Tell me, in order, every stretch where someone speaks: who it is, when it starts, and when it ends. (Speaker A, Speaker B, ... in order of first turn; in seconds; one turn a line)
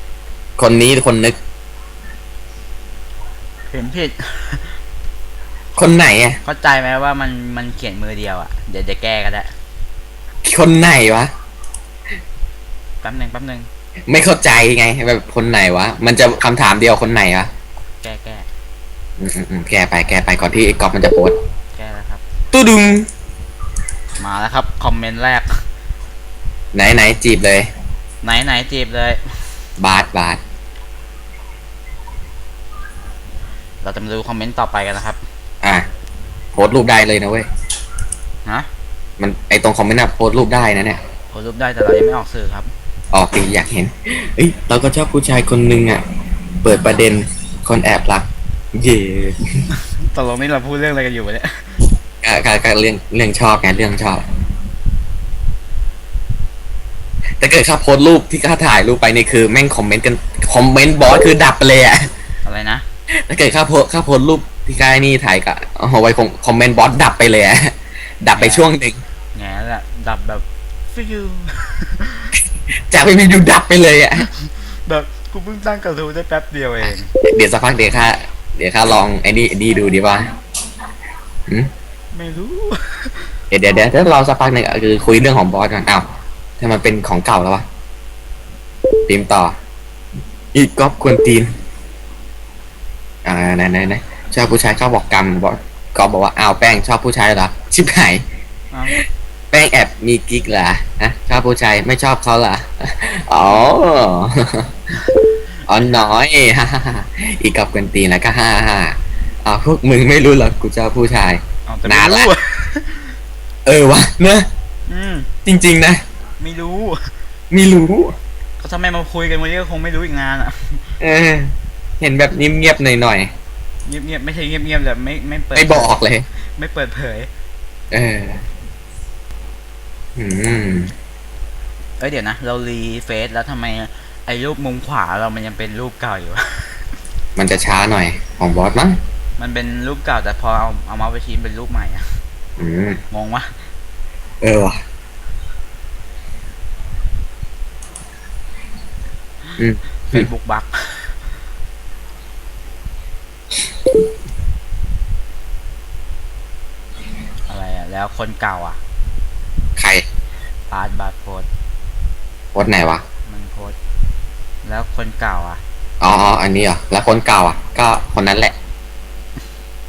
Speaker A: 0.6-1.4
Speaker B: 3.7-4.7
Speaker A: 5.8-6.4
Speaker B: 6.4-9.5
Speaker A: 10.4-11.3
Speaker B: 13.0-13.7
Speaker A: 14.1-17.5
Speaker B: 18.0-18.5
Speaker A: 19.2-21.4
Speaker B: 21.7-22.2
Speaker A: 22.5-23.1
Speaker B: 24.2-25.6
Speaker A: 26.7-27.7
Speaker B: 28.2-29.2
Speaker A: 29.8-30.4
Speaker B: 33.8-35.2
Speaker A: 36.5-37.5
Speaker A: 39.2-41.0
Speaker B: 41.3-42.7
Speaker A: 43.1-46.0
Speaker A: 46.6-49.7
Speaker B: 49.7-51.8
Speaker A: 52.2-54.2
Speaker A: 57.4-62.1
Speaker B: 62.4-62.8
Speaker A: 63.2-69.0
Speaker B: 68.3-68.7
Speaker B: 69.3-72.3
Speaker A: 72.9-74.3
Speaker B: 74.3-77.1
Speaker A: 77.2-80.2
Speaker B: 82.1-83.3
Speaker A: 83.5-86.0
Speaker A: 86.6-87.6
Speaker A: 89.1-89.5
Speaker A: 90.5-91.5
Speaker A: 93.2-98.2
Speaker B: 98.7-99.0
Speaker A: 99.5-104.7
Speaker B: 103.5-103.8
Speaker A: 105.7-112.3
Speaker B: 111.7-113.2
Speaker A: 113.6-114.5
Speaker B: 114.9-115.3
Speaker A: 115.4-116.0
Speaker B: 116.4-117.0
Speaker A: 117.5-118.1
Speaker B: 118.6-120.8
Speaker A: 121.0-123.3
Speaker B: 123.9-126.0
Speaker A: 125.5-126.2
Speaker B: 126.5-127.3
Speaker A: 127.9-128.4
Speaker A: 130.2-130.9
Speaker B: 132.0-136.8
Speaker A: 137.3-139.0
Speaker B: 139.4-142.0
Speaker A: 142.6-143.0
Speaker B: 143.1-143.5
Speaker A: 144.4-144.8
Speaker A: 149.6-150.3
Speaker B: 150.1-151.1
Speaker B: 157.5-158.8
Speaker A: 159.8-160.0
Speaker B: 160.7-161.5
Speaker A: 162.5-163.0
Speaker B: 163.3-163.8
Speaker B: 164.6-165.6
Speaker A: 166.0-168.5